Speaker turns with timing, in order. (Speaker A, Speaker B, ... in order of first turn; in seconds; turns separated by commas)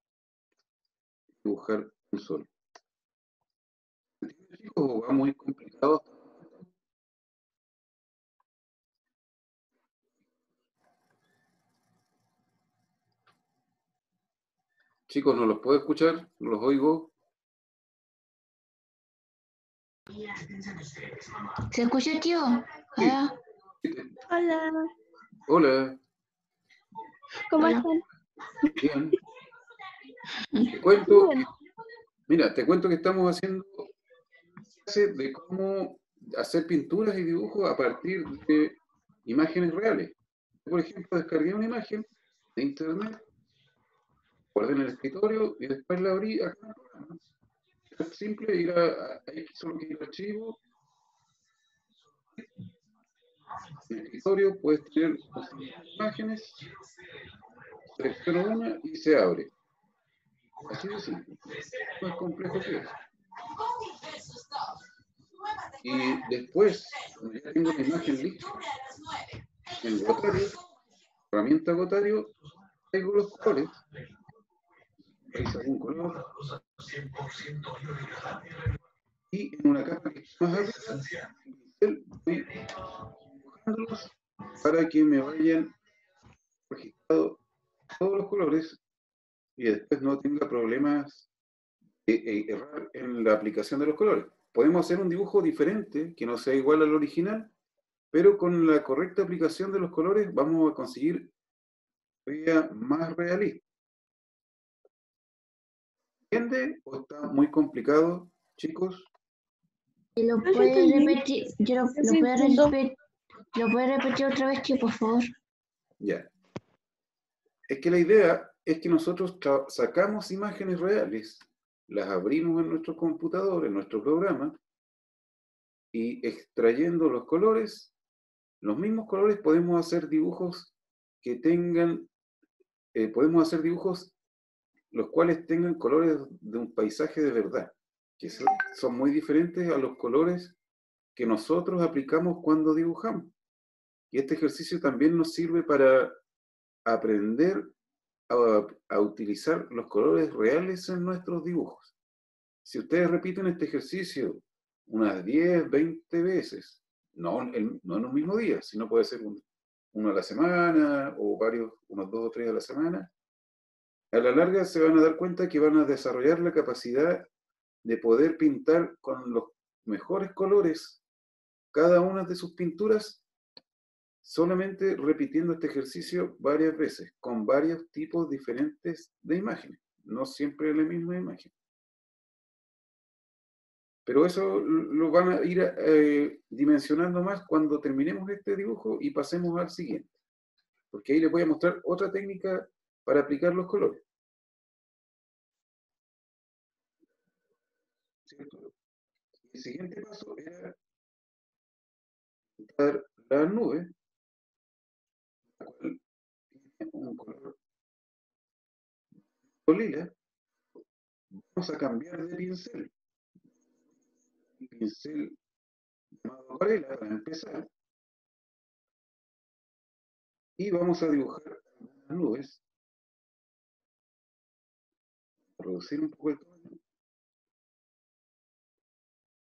Speaker A: 1.4-2.5, Speaker A: 4.2-6.7, Speaker A: 15.1-17.1, Speaker B: 20.2-23.4, Speaker A: 22.9-23.2, Speaker A: 23.8-24.2, Speaker C: 24.3-24.9, Speaker A: 25.5-26.0, Speaker C: 27.5-28.0, Speaker B: 27.6-27.9, Speaker A: 28.6-29.2, Speaker B: 30.3-30.9, Speaker A: 30.7-31.5, Speaker C: 31.0-31.4, Speaker A: 32.3-33.9, Speaker A: 34.8-43.2, Speaker A: 44.5-47.2, Speaker A: 47.9-50.6, Speaker A: 53.8-56.7, Speaker A: 57.8-59.5, Speaker A: 60.6-63.0, Speaker A: 65.8-68.6, Speaker A: 69.7-70.6, Speaker A: 71.3-72.3, Speaker A: 72.9-73.8, Speaker A: 75.3-76.4, Speaker A: 79.3-82.7, Speaker A: 83.3-85.7, Speaker A: 86.7-87.4, Speaker A: 87.9-88.8, Speaker A: 89.6-91.3, Speaker A: 92.0-97.5, Speaker A: 98.1-101.3, Speaker A: 102.2-103.6, Speaker A: 106.3-109.1, Speaker B: 110.2-113.0, Speaker C: 110.4-111.2, Speaker C: 111.9-112.8, Speaker B: 113.5-115.3, Speaker A: 116.0-116.3, Speaker A: 117.7-124.6, Speaker A: 125.9-127.9, Speaker A: 128.6-132.1, Speaker A: 132.9-134.1, Speaker A: 134.9-140.6, Speaker A: 141.1-143.3, Speaker A: 144.1-146.2, Speaker A: 146.9-147.7, Speaker A: 148.3-151.9, Speaker A: 152.6-163.1, Speaker A: 164.1-167.3, Speaker A: 167.8-171.0, Speaker A: 171.7-173.2, Speaker A: 174.2-181.5, Speaker A: 184.1-190.1, Speaker A: 190.9-194.0, Speaker A: 198.2-198.7, Speaker A: 199.5-200.8, Speaker A: 202.6-203.9, Speaker A: 205.6-206.0, Speaker A: 206.5-207.6, Speaker A: 209.7-210.1, Speaker A: 211.3-212.9, Speaker A: 214.6-215.4, Speaker A: 216.2-217.7, Speaker A: 220.6-222.6, Speaker A: 225.6-226.8